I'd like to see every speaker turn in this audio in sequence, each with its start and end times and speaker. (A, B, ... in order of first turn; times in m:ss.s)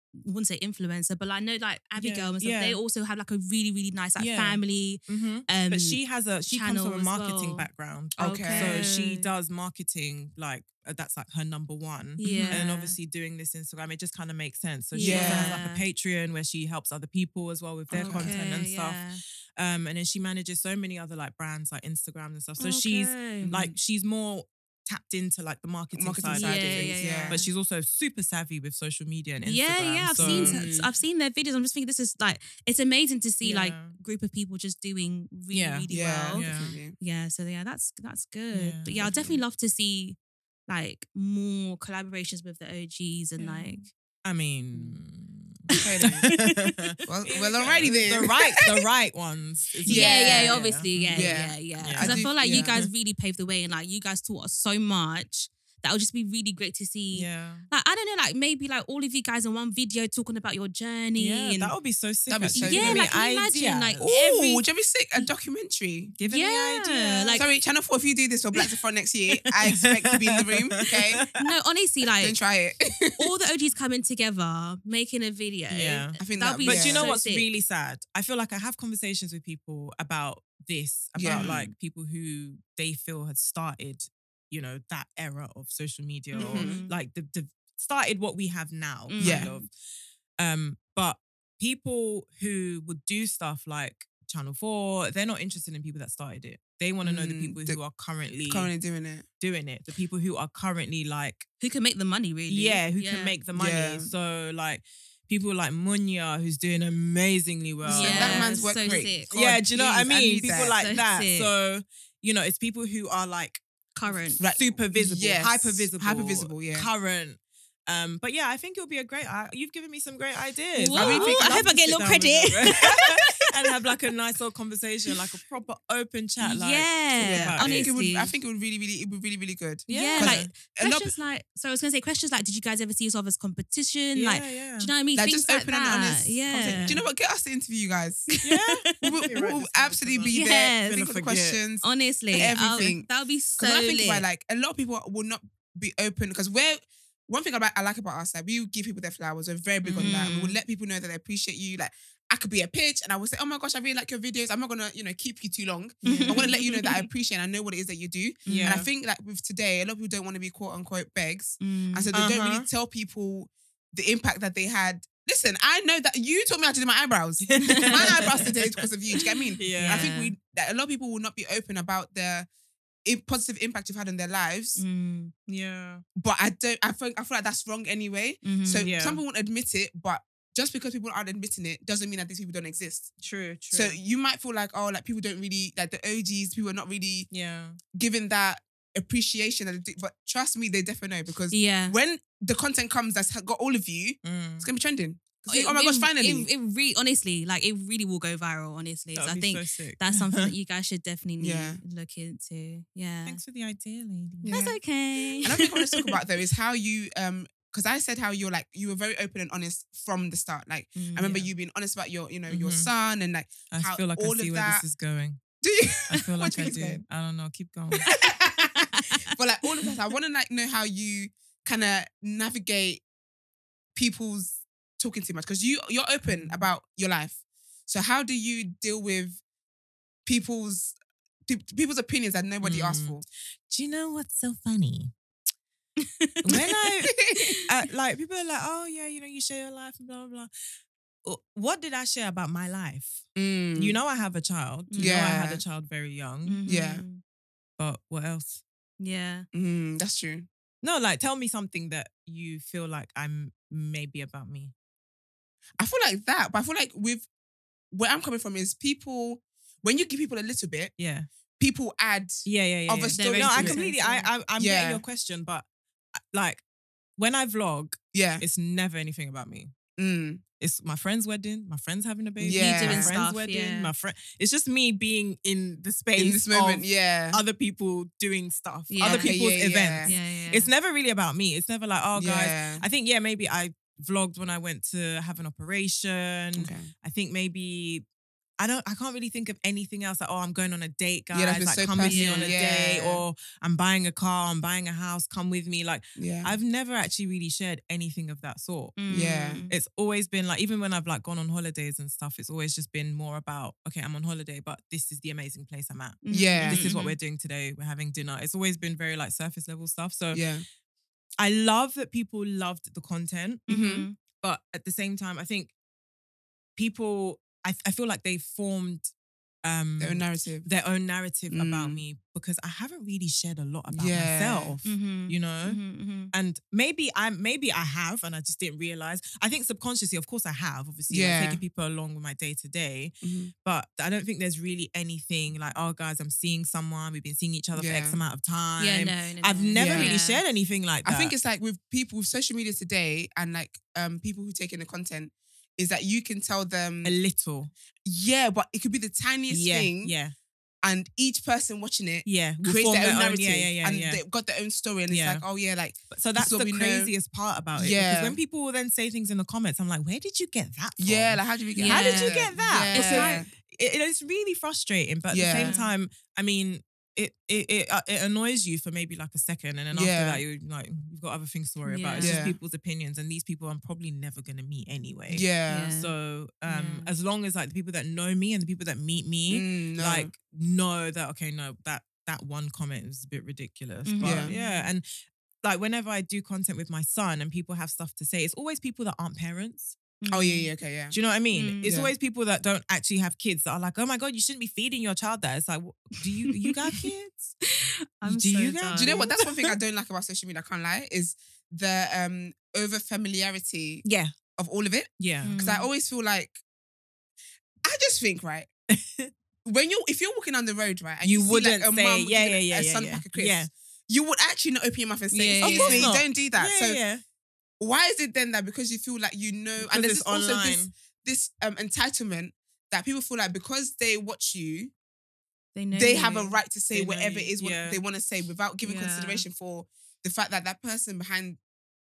0:00.2-0:07.7 A
0:02.0-0:02.8 B
0:04.2-0:19.1 B
0:08.2-0:08.9 C
0:08.2-0:09.3 A
0:12.2-0:13.0 A
0:12.2-0:12.6 C
0:14.9-0:15.8 A
0:15.0-0:15.6 C
0:17.9-0:18.4 C
0:17.9-0:19.2 A
0:19.6-0:30.6 B
0:22.6-0:23.5 A
0:23.4-0:23.8 C
0:25.9-0:27.4 C
0:26.3-0:27.5 A
0:29.4-0:36.5 A
0:30.2-0:30.9 C
0:33.4-0:34.0 B
0:35.5-0:36.8 B
0:35.9-0:37.0 C
0:37.0-0:43.9 A
0:38.5-0:39.2 B
0:39.0-0:39.4 C
0:43.4-0:52.9 B
0:45.8-0:46.3 C
0:46.0-0:46.9 A
0:47.1-0:48.7 C
0:49.8-0:52.7 C
0:49.9-1:01.7 A
0:57.1-0:57.7 B
1:01.2-1:04.0 B
1:02.3-1:03.1 C
1:02.6-1:04.6 A
1:04.0-1:06.2 C
1:06.2-1:07.4 B
1:06.3-1:07.4 A
1:07.4-1:11.2 C
1:09.6-1:11.4 B
1:11.3-1:12.4 A
1:12.2-1:13.3 C
1:13.2-1:17.5 A
1:15.7-1:29.7 B
1:16.2-1:17.1 C
1:21.2-1:21.7 C
1:21.3-1:21.7 A
1:26.4-1:26.9 A
1:26.4-1:26.8 C
1:29.1-1:29.7 A
1:29.2-1:29.5 C
1:30.4-1:38.7 B
1:37.0-1:37.8 C
1:38.5-1:39.3 C
1:39.4-1:41.5 B
1:41.6-1:43.4 A
1:42.5-1:48.5 B
1:43.5-1:44.1 C
1:47.8-1:50.8 C
1:47.9-1:49.3 A
1:49.3-1:53.6 B
1:50.8-1:51.5 A
1:54.0-1:54.4 A
1:54.4-1:56.9 C
1:54.4-2:07.9 B
2:00.8-2:03.7 A
2:00.9-2:01.7 C
2:06.4-2:08.3 A
2:07.2-2:11.1 C
2:09.9-2:10.5 B
2:09.9-2:17.0 A
2:14.2-2:14.9 B
2:15.1-2:18.3 C
2:16.5-2:17.0 B
2:18.4-2:18.8 A
2:18.4-2:21.6 B
2:19.0-2:52.5 C
2:20.3-2:21.1 A
2:21.8-2:24.3 A
2:29.8-2:30.6 A
2:36.0-2:36.5 B
2:36.0-2:37.0 A
2:38.5-2:38.8 A
2:38.5-2:38.9 B
2:41.6-2:42.1 A
2:42.1-2:42.7 B
2:47.5-2:48.9 B
2:47.7-2:48.3 A
2:49.6-2:50.1 B
2:49.7-2:50.3 A
2:53.0-2:54.8 C
2:54.8-2:55.3 A
2:55.5-2:56.0 B
2:56.2-3:03.1 C
2:58.4-2:58.9 A
2:58.8-2:59.2 B
3:03.2-3:04.0 B
3:03.7-3:07.3 C
3:07.3-3:07.8 B
3:07.9-3:16.5 C
3:11.5-3:12.0 A
3:14.2-3:14.7 B
3:15.5-3:23.4 A
3:19.2-3:20.5 B
3:21.4-3:21.8 C
3:23.2-3:24.6 B
3:24.4-3:24.8 C
3:24.5-3:26.1 A
3:25.4-3:34.8 C
3:31.0-3:31.5 A
3:32.5-3:32.9 B
3:33.7-3:35.4 B
3:35.6-3:37.0 C
3:36.1-3:38.1 B
3:38.0-3:43.0 C
3:38.9-3:39.2 A
3:44.0-3:47.4 C
3:46.3-3:46.6 B
3:47.9-3:49.4 C
3:50.2-3:51.0 C
3:51.5-3:53.2 C
3:52.6-3:55.1 B
3:56.0-3:56.6 A
3:56.4-4:00.5 B
3:57.2-3:57.5 C
4:01.2-4:06.6 B
4:03.4-4:04.0 C
4:04.9-4:05.2 A
4:05.0-4:05.6 C
4:06.5-4:07.2 A
4:06.7-4:07.0 C
4:07.8-4:08.6 B
4:09.0-4:09.5 A
4:09.5-4:10.5 C
4:10.8-4:14.7 B
4:15.8-4:17.3 C
4:17.9-4:20.9 C
4:21.0-4:21.3 B
4:21.6-4:23.8 C
4:22.5-4:25.6 B
4:23.2-4:24.3 A
4:24.6-4:25.0 C
4:26.3-4:26.6 B
4:27.2-4:29.7 B
4:28.1-4:28.4 C
4:30.0-4:30.4 C
4:30.6-4:48.0 B
4:32.4-4:33.1 C
4:32.5-4:33.9 A
4:36.2-4:37.4 C
4:38.9-4:39.4 A
4:39.0-4:40.1 C
4:40.0-4:40.7 A
4:42.2-4:42.8 C
4:46.6-4:46.9 C
4:48.6-4:59.0 B
4:51.3-4:53.2 C
4:52.0-4:52.5 A
4:56.2-4:56.5 C
4:59.0-4:59.8 A
4:59.1-4:59.6 C
4:59.7-5:10.4 B
5:06.2-5:07.2 A
5:06.3-5:06.9 C
5:10.3-5:10.6 C
5:11.4-5:13.7 B
5:13.7-5:14.1 C
5:13.7-5:14.2 A
5:14.2-5:15.7 B
5:16.8-5:19.1 B
5:19.6-5:25.8 B
5:20.0-5:20.7 C
5:21.5-5:22.0 C
5:23.9-5:24.8 C
5:24.8-5:26.3 A
5:26.3-5:33.1 B
5:31.1-5:31.6 C
5:33.2-5:33.5 C
5:33.6-5:41.3 B
5:37.7-5:38.2 C
5:38.8-5:40.4 A
5:39.8-5:40.2 C
5:41.0-5:47.2 C
5:47.0-5:47.7 B
5:48.0-5:50.1 C
5:49.5-5:50.3 B
5:50.8-5:57.1 C
5:52.3-5:54.2 B
5:55.1-5:55.4 B
5:56.1-6:25.1 B
5:57.8-5:58.4 C
6:01.0-6:03.5 C
6:01.8-6:03.4 A
6:05.3-6:05.7 C
6:05.5-6:05.9 A
6:09.9-6:10.4 C
6:11.9-6:12.4 A
6:12.2-6:12.6 C
6:15.3-6:15.9 C
6:15.7-6:16.1 A
6:16.7-6:17.1 A
6:19.5-6:20.3 C
6:24.1-6:24.9 A
6:24.2-6:24.5 C
6:25.6-6:30.0 B
6:30.2-6:30.7 A
6:30.3-6:31.2 C
6:31.1-6:37.6 B
6:31.5-6:31.9 A
6:31.8-6:32.1 C
6:36.5-6:37.1 A
6:37.6-6:39.2 A
6:38.2-6:39.7 B
6:38.9-6:44.0 C
6:44.0-6:44.3 B
6:44.6-6:46.6 C
6:45.2-6:45.6 B
6:45.4-6:45.9 A
6:47.8-6:48.7 C
6:48.9-6:49.3 B
6:49.6-6:57.0 C
6:51.2-6:53.7 B
6:55.3-6:56.1 A
6:55.6-6:57.2 B
6:57.8-7:04.9 C
6:59.8-7:00.9 B
7:05.8-7:06.6 A
7:05.9-7:11.6 C
7:06.9-7:08.0 B
7:08.8-7:09.5 A